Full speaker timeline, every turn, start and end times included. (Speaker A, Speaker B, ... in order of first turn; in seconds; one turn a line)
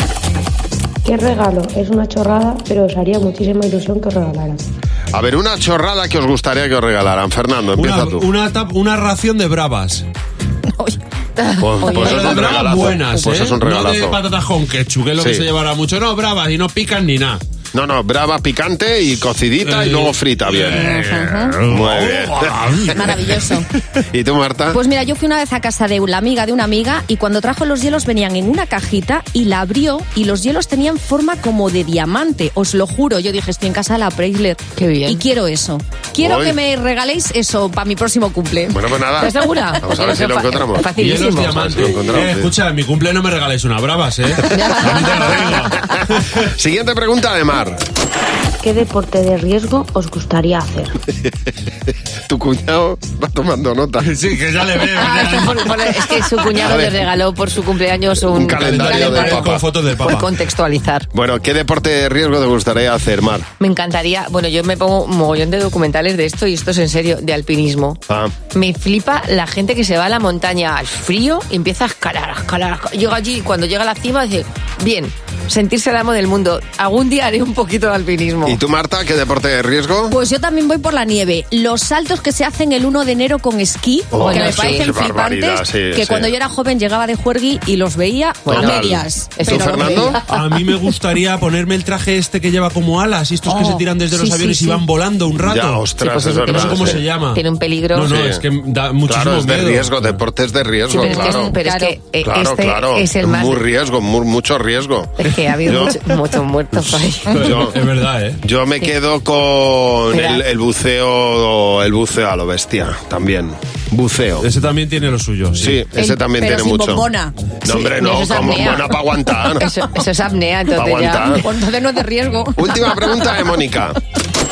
Speaker A: 1.0-4.6
Speaker B: 5.1-8.3
Speaker C: 7.8-10.1
Speaker D: 11.4-12.5
Speaker B: 11.6-14.2
Speaker C: 11.9-17.4
Speaker B: 15.2-15.5
Speaker B: 17.7-20.9
Speaker C: 19.6-23.3
Speaker E: 20.7-21.6
Speaker B: 21.7-22.8
Speaker E: 22.9-23.7
Speaker B: 24.0-24.8
Speaker E: 24.7-38.8
Speaker D: 34.8-35.2
Speaker B: 36.2-36.6
Speaker B: 38.7-42.5
Speaker D: 39.2-41.6
Speaker C: 41.0-46.5
Speaker E: 44.5-45.4
Speaker B: 46.4-47.8
Speaker A: 48.6-50.9
Speaker B: 52.3-54.1
Speaker C: 54.0-55.8
Speaker D: 54.9-61.1
Speaker B: 56.5-57.0
Speaker B: 58.3-59.6
Speaker C: 58.5-60.3
Speaker E: 58.8-59.3
Speaker B: 61.1-63.5
Speaker D: 63.6-68.0
Speaker B: 68.1-68.3
Speaker D: 68.5-78.6
Speaker B: 78.5-80.2
Speaker E: 80.1-90.2
Speaker B: 84.1-86.3
Speaker D: 84.1-84.9
Speaker D: 88.5-90.3
Speaker B: 88.5-90.2
Speaker C: 90.3-95.9
Speaker E: 93.5-94.8
Speaker B: 95.4-97.0
Speaker D: 96.0-98.1
Speaker C: 96.4-100.2
Speaker B: 98.1-98.4
Speaker B: 99.1-101.5
Speaker D: 100.9-103.7
Speaker E: 101.0-102.0
Speaker B: 102.2-106.0
Speaker D: 105.2-107.5
Speaker C: 107.3-108.4
Speaker B: 107.3-107.8
Speaker B: 108.4-114.5
Speaker D: 110.1-110.4
Speaker C: 114.4-115.8
Speaker B: 115.6-117.1
Speaker E: 116.0-117.4
Speaker B: 117.7-119.7
Speaker D: 117.7-121.4
Speaker B: 120.7-121.5
Speaker E: 121.2-123.4
Speaker B: 122.6-124.0